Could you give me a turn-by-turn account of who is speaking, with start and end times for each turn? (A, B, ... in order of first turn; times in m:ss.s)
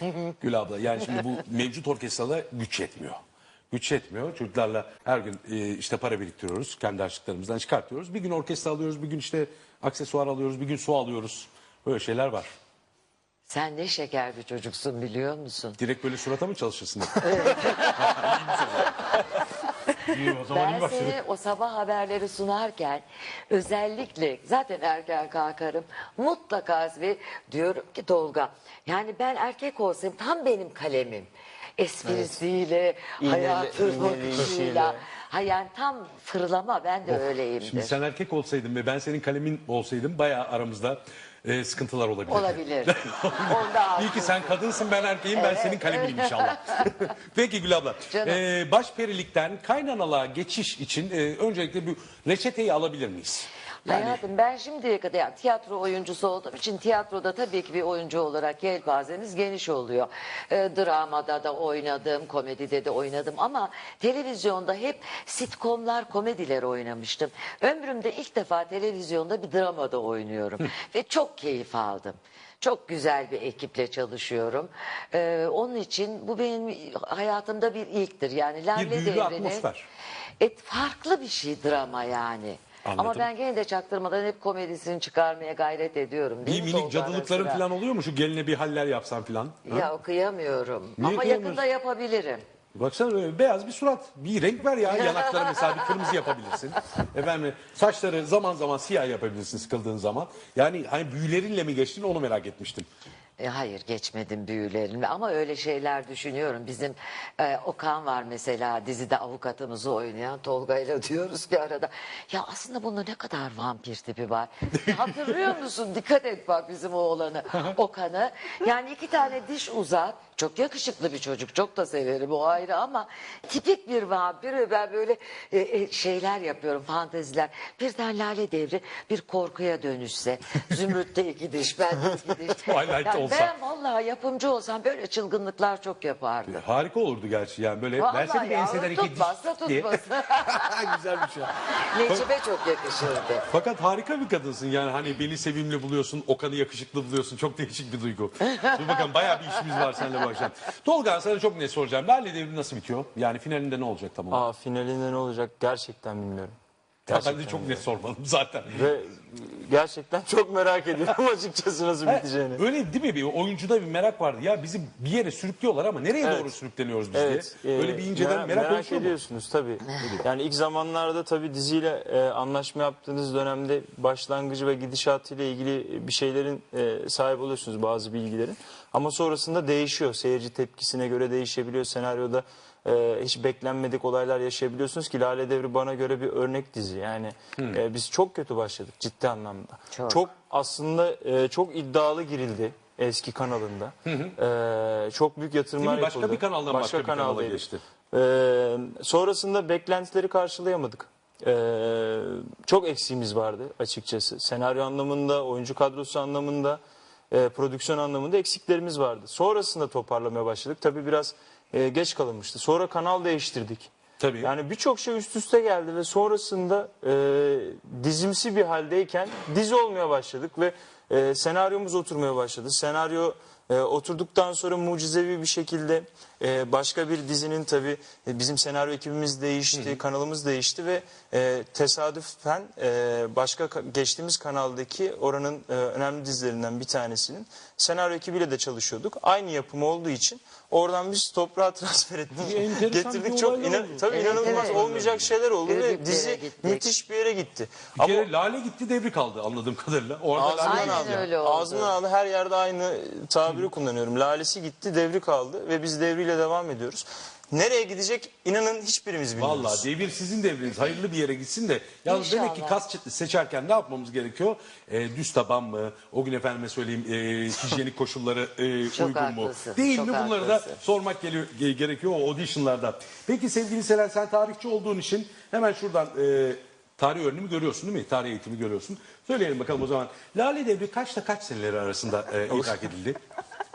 0:00.4-0:03.2 A
0:03.7-0:12.5 A
0:13.5-0:15.8 B
0:15.8-0:18.9 A
0:17.2-0:18.9 B
0:20.1-0:21.2 A
0:20.4-0:38.0 B
0:32.0-0:32.4 C
0:33.2-0:35.0 C
0:37.1-0:54.2 A
0:42.3-0:44.7 B
0:45.3-0:47.0 B
0:48.1-0:48.4 B
0:53.8-1:19.6 B
1:18.7-1:19.8 A
1:20.4-1:27.6 B
1:22.8-1:23.3 A
1:26.4-1:29.9 A
1:29.6-1:32.4 B
1:31.0-1:31.6 A
1:32.7-1:42.9 A
1:34.8-1:35.7 B
1:43.4-2:16.6 B
1:54.8-1:55.3 A
2:12.7-2:13.5 A
2:16.5-2:21.5 A
2:18.0-2:21.0 B
2:21.9-2:23.5 B
2:23.5-2:34.4 A
2:28.5-2:30.3 B
2:34.3-2:36.5 C
2:37.1-2:37.9 C
2:37.1-2:38.9 A
2:38.7-2:42.6 C
2:42.0-2:49.1 A
2:46.2-2:46.6 C
2:47.1-3:26.8 C
2:50.0-2:50.2 A
3:09.9-3:10.2 B
3:14.0-3:14.3 A
3:15.8-3:17.8 A
3:27.3-4:08.3 C
3:34.2-3:34.5 A
3:49.7-3:50.0 A
4:02.4-4:05.3 A
4:04.1-4:04.8 B
4:05.6-4:06.9 B
4:08.0-4:11.3 A
4:10.3-4:19.9 C
4:10.6-4:12.0 B
4:19.4-4:43.2 A
4:22.0-4:22.8 B
4:28.8-4:30.8 B